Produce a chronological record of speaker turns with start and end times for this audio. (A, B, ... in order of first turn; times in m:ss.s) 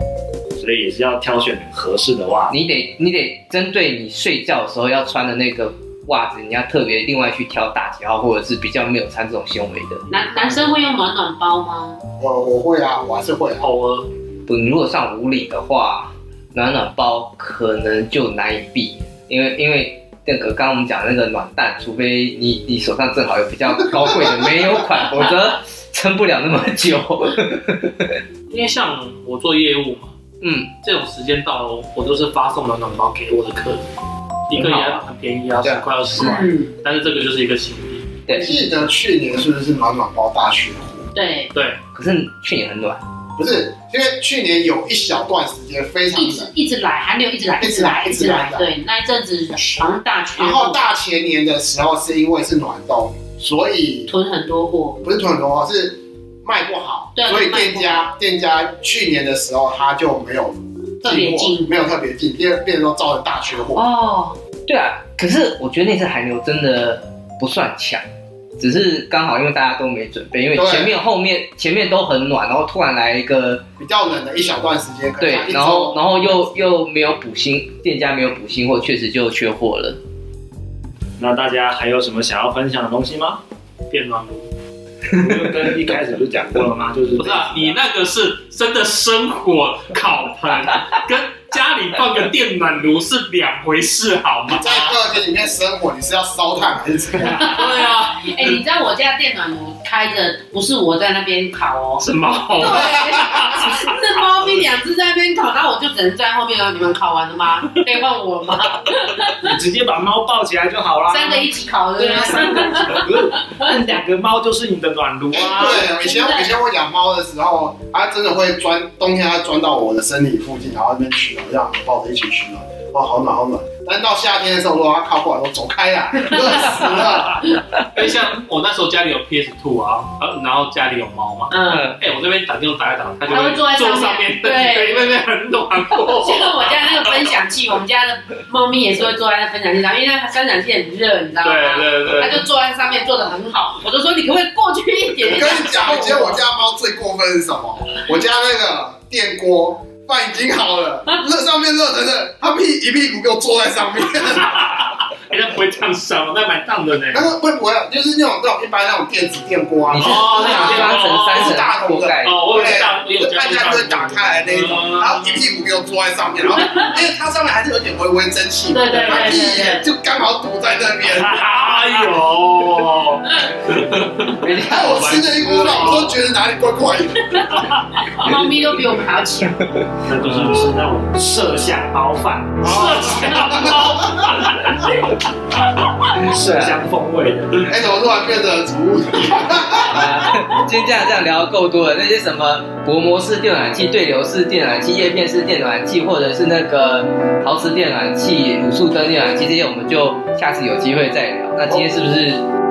0:00.6-0:02.6 A
0:02.5-0:10.0 B
0:10.1-0:12.0 C
0:12.2-0:13.7 D
0:13.6-0:14.1 E
0:14.5-0:28.2 B
0:28.5-0:30.1 E
0:30.4-0:30.7 B
0:30.8-0:33.9 E
0:34.5-0:38.1 E
0:34.5-0:35.0 B
0:35.6-0:36.4 B
0:36.2-0:36.7 C
0:38.3-0:38.5 B
0:38.3-0:41.1 D
0:41.1-0:41.5 C
0:41.5-0:41.8 E
0:41.9-0:43.0 B
0:43.4-0:46.5 D
0:46.1-0:50.8 C
0:47.6-0:48.7 D
0:50.4-0:54.1 D
0:54.1-0:55.0 C
0:55.0-1:03.8 D
0:57.2-0:58.1 C
1:01.0-1:01.7 C
1:03.8-1:04.3 C
1:04.7-1:08.0 B
1:08.6-1:13.6 B
1:10.5-1:10.9 D
1:13.8-1:16.4 D
1:15.2-1:20.0 B
1:21.2-1:23.4 A
1:23.9-1:24.5 E
1:25.1-1:27.8 A
1:27.2-1:35.0 E
1:34.5-1:37.6 D
1:37.2-1:42.0 C
1:37.4-1:38.6 E
1:42.0-1:44.0 E
1:42.6-1:49.5 C
1:42.7-1:43.2 D
1:49.4-1:56.0 A
1:51.1-1:53.7 C
1:55.3-2:07.5 D
1:56.0-1:56.5 C
2:07.9-2:17.4 E
2:11.5-2:11.9 C
2:11.7-2:12.0 B
2:13.3-2:15.2 C
2:16.2-2:26.4 C
2:21.4-2:22.4 E
2:25.2-2:34.8 D
2:34.4-2:37.2 E
2:37.1-2:51.4 D
2:39.9-2:41.7 E
2:39.9-2:42.7 B
2:42.2-2:45.3 E
2:48.7-2:49.8 C
2:48.9-2:49.4 E
2:51.2-2:52.1 A
2:51.2-2:56.1 E
2:54.4-2:55.6 B
2:54.6-2:57.6 D
2:58.0-2:59.6 C
3:00.0-3:02.6 A
3:02.6-3:04.4 D
3:02.6-3:04.8 E
3:06.1-3:07.7 A
3:06.2-3:06.8 B
3:07.6-3:10.3 D
3:09.9-3:22.4 B